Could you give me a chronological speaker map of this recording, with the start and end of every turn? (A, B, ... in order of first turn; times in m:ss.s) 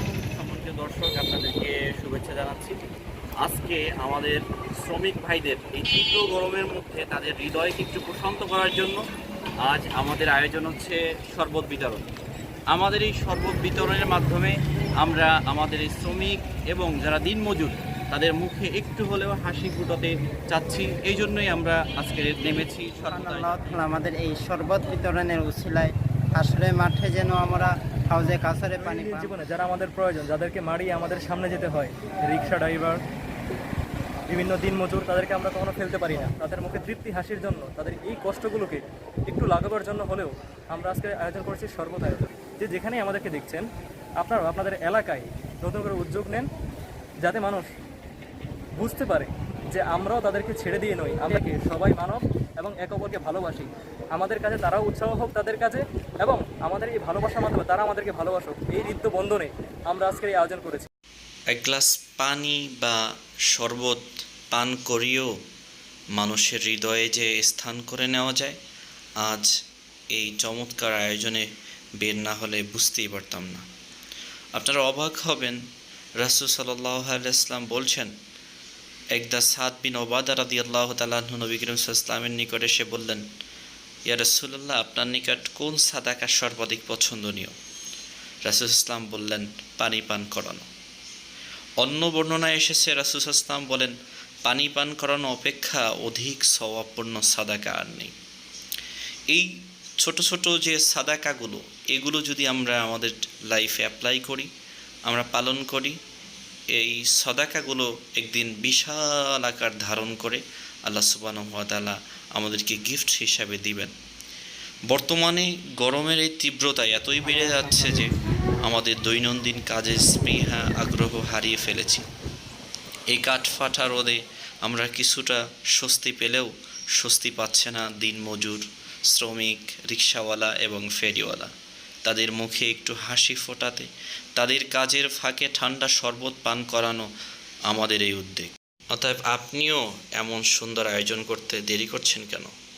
0:00.4-0:01.4 A
0:00.4-0:02.8 B
0:02.0-0:02.8 A
0:03.4-0:09.0 B
0:09.6-0:12.0 B
0:12.7-0:23.5 B
0:23.1-0:29.3 C
0:28.8-0:33.0 D
0:34.3-0:43.6 D
0:44.2-0:46.5 D
0:47.2-0:47.7 D
0:48.8-1:00.9 D
1:01.5-1:03.0 A
1:03.5-1:05.3 A
1:06.1-1:08.6 A
1:09.2-1:09.5 A
1:10.1-1:11.5 A
1:12.0-1:13.6 A
1:14.5-1:15.6 A
1:16.2-1:18.1 A
1:19.1-1:23.2 A
1:24.0-1:27.6 A
1:28.4-1:30.7 A
1:31.8-1:33.9 A
1:34.4-1:38.1 A
1:40.0-1:44.5 A
1:45.1-1:46.0 A
1:46.7-1:53.9 A
1:54.9-1:58.1 A
1:58.6-2:02.0 A
2:03.1-2:17.1 A
2:17.7-2:22.5 A